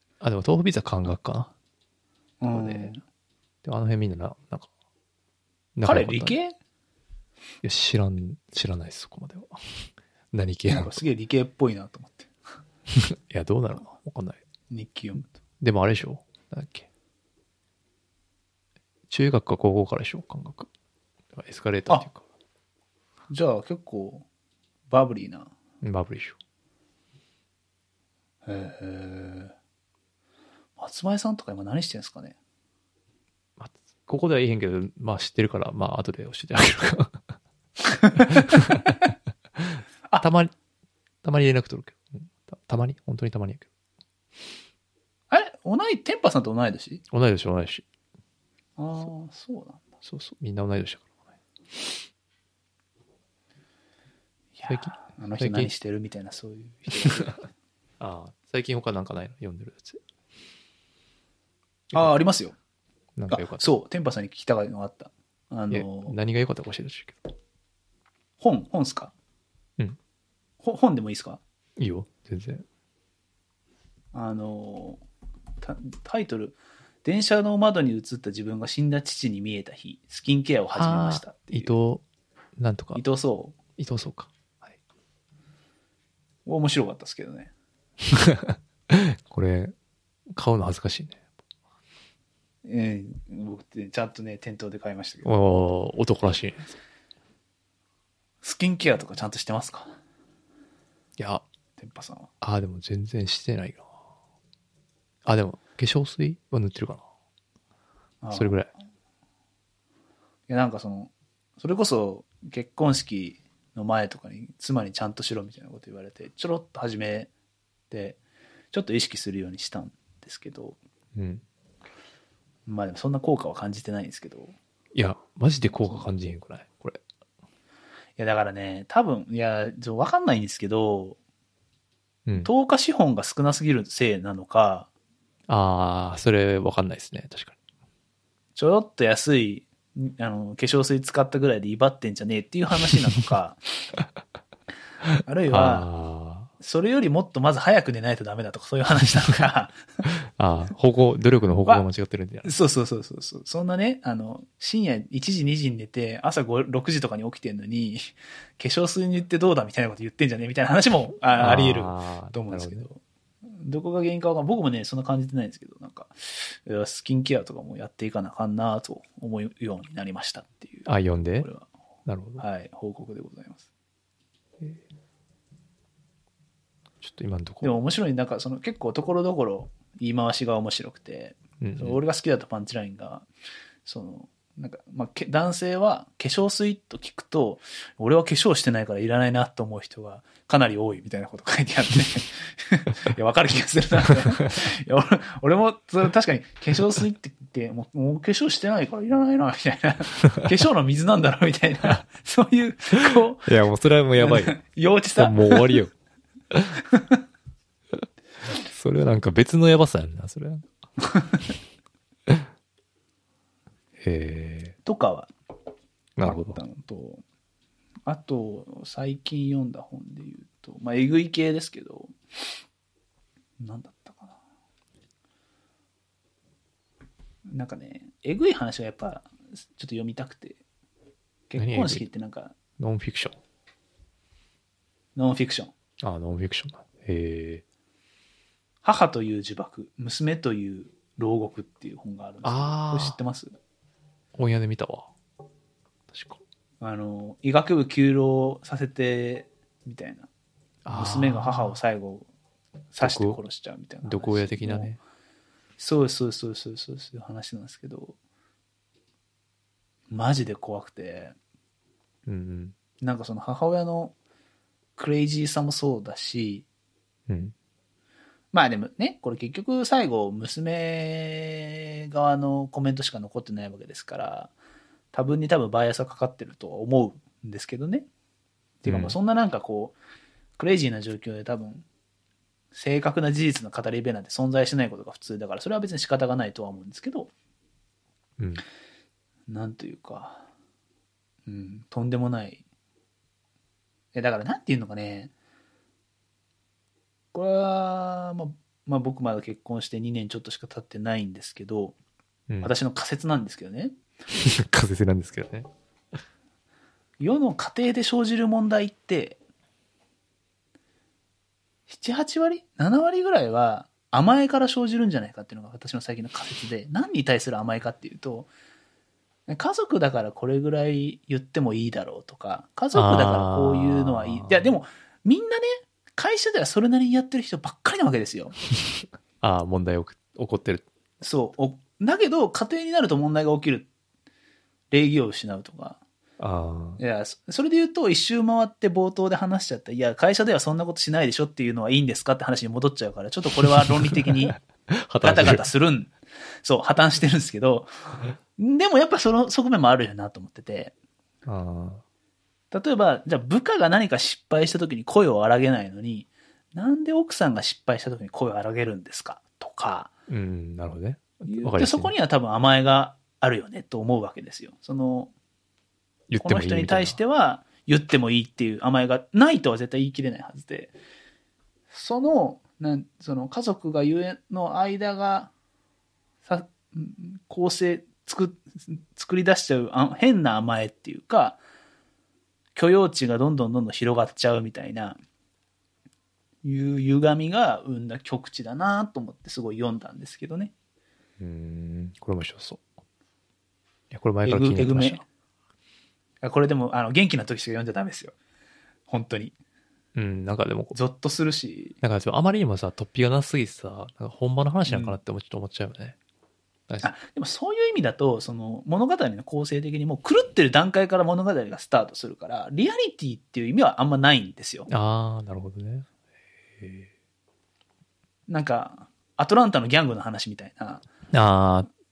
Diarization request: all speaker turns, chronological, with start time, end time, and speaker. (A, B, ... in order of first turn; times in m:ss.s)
0:00.2-0:01.5 A
0:02.4-0:03.0 B
0:02.5-0:02.9 A
0:03.6-0:04.7 A
0:05.7-0:06.3 A
0:05.8-0:06.5 B
0:07.6-0:11.0 A
0:10.7-0:12.3 B
0:12.9-0:14.4 A
0:14.7-0:15.3 B
0:15.6-0:16.9 A
0:19.1-0:20.7 A
0:21.3-0:22.2 A
0:23.3-0:24.2 B
0:24.9-0:25.5 B
0:25.8-0:26.4 A
0:28.4-0:29.5 B
0:30.8-0:32.4 B
0:33.6-0:37.2 A
0:38.2-0:40.5 A
0:41.2-0:43.7 A
0:45.3-0:47.0 B
0:47.1-0:47.8 A
0:48.8-0:49.8 B
0:50.0-0:51.1 A
0:54.6-0:57.4 B
0:54.7-0:55.7 A
0:57.0-0:57.4 A
0:58.0-1:00.0 A
1:01.9-1:02.5 B
1:03.2-1:03.7 A
1:03.3-1:06.1 B
1:05.7-1:07.3 A
1:08.4-1:09.1 B
1:10.6-1:11.4 B
1:11.8-1:12.6 A
1:14.1-1:15.0 B
1:15.6-1:21.7 B
1:20.7-1:22.0 A
1:22.6-1:23.0 A
1:22.9-1:23.6 B
1:23.8-1:24.7 A
1:26.4-1:27.5 B
1:28.1-1:29.7 A
1:30.3-1:31.2 A
1:32.6-1:35.3 B
1:35.2-1:36.8 A
1:38.4-1:39.9 B
1:41.2-1:41.4 A
1:41.8-1:42.3 B
1:42.4-1:43.9 A
1:45.2-1:47.0 A
1:48.2-1:48.6 B
1:48.3-1:48.7 A
1:50.5-1:57.3 B
1:57.9-1:58.2 B
1:58.7-2:00.8 B
2:01.2-2:01.4 A
2:02.7-2:04.5 B
2:04.9-2:07.0 A
2:05.8-2:06.1 B
2:08.2-2:11.2 B
2:12.4-2:14.9 B
2:15.5-2:17.6 A
2:18.6-2:23.6 B
2:25.2-2:25.9 B
2:25.5-2:26.5 A
2:26.6-2:29.8 B
2:30.0-2:32.5 A
2:32.4-2:50.9 B
2:41.4-2:42.9 A
2:50.8-2:51.5 A
2:51.4-2:51.7 B
2:52.0-2:52.4 A
2:52.4-2:53.6 B
2:57.0-2:57.8 A
2:57.6-3:03.2 B
3:01.6-3:02.0 A
3:03.8-3:23.5 B
3:23.0-3:24.6 A
3:24.2-3:25.8 B
3:25.2-3:25.9 A
3:26.5-3:26.8 A
3:28.6-3:30.7 A
3:34.0-3:34.8 A
3:34.8-3:35.3 B
3:36.2-3:36.6 A
3:36.2-3:37.2 B
3:38.0-3:42.1 B
3:43.6-3:44.4 B
3:47.5-3:50.6 B
3:51.5-3:52.5 B
3:51.6-3:52.0 A
3:52.8-3:53.4 A
3:55.2-3:55.7 B
3:56.0-3:57.6 A
3:58.8-4:03.5 B
4:02.4-4:03.2 A
4:04.4-4:05.1 A
4:06.1-4:06.4 A
4:06.8-4:10.3 B
4:10.8-4:11.8 A
4:10.9-4:12.3 B
4:12.9-4:14.9 B
4:13.0-4:13.4 A
4:14.0-4:15.0 A
4:15.8-4:18.2 B
4:20.1-4:21.3 B
4:22.2-4:22.7 A
4:23.0-4:24.1 B
4:25.0-4:26.6 B
4:27.3-4:27.5 A
4:28.5-4:34.5 B
4:35.1-4:38.1 B
4:38.8-4:40.0 B
4:38.8-4:39.2 A
4:40.6-4:41.8 B
4:42.7-4:47.3 B
4:48.4-4:48.6 A
4:49.5-4:50.4 B
4:51.5-4:52.6 B
4:54.1-4:55.3 B
4:57.3-5:02.0 B
5:02.6-5:03.9 B
5:04.3-5:05.7 A
5:07.2-5:09.4 B
5:11.9-5:18.5 B
5:19.5-5:28.6 B
5:22.9-5:24.7 A
5:29.4-5:30.8 A
5:31.2-5:33.9 B
5:34.9-5:36.0 B
5:36.4-5:37.0 A
5:37.0-5:44.6 B
5:43.6-5:45.6 A
5:45.2-5:46.1 B
5:46.6-5:50.9 B
5:51.4-5:52.0 A
5:52.7-6:00.1 B
6:00.3-6:02.1 A
6:01.5-6:05.3 B
6:06.3-6:07.2 A
6:06.4-6:10.9 B
6:11.9-6:15.5 B
6:16.4-6:21.6 B
6:22.7-6:25.2 B
6:26.6-6:30.7 B
6:31.4-6:32.8 A
6:34.1-6:35.2 A
6:34.4-6:35.2 B
6:36.4-6:38.3 B
6:39.1-6:39.5 B
6:40.1-6:40.9 A
6:40.9-6:42.0 B
6:42.0-6:46.2 A
6:44.9-6:45.2 B
6:47.0-6:54.9 B
6:54.9-6:56.1 A
6:56.8-6:57.1 A
6:58.5-7:01.0 B
7:01.3-7:01.9 A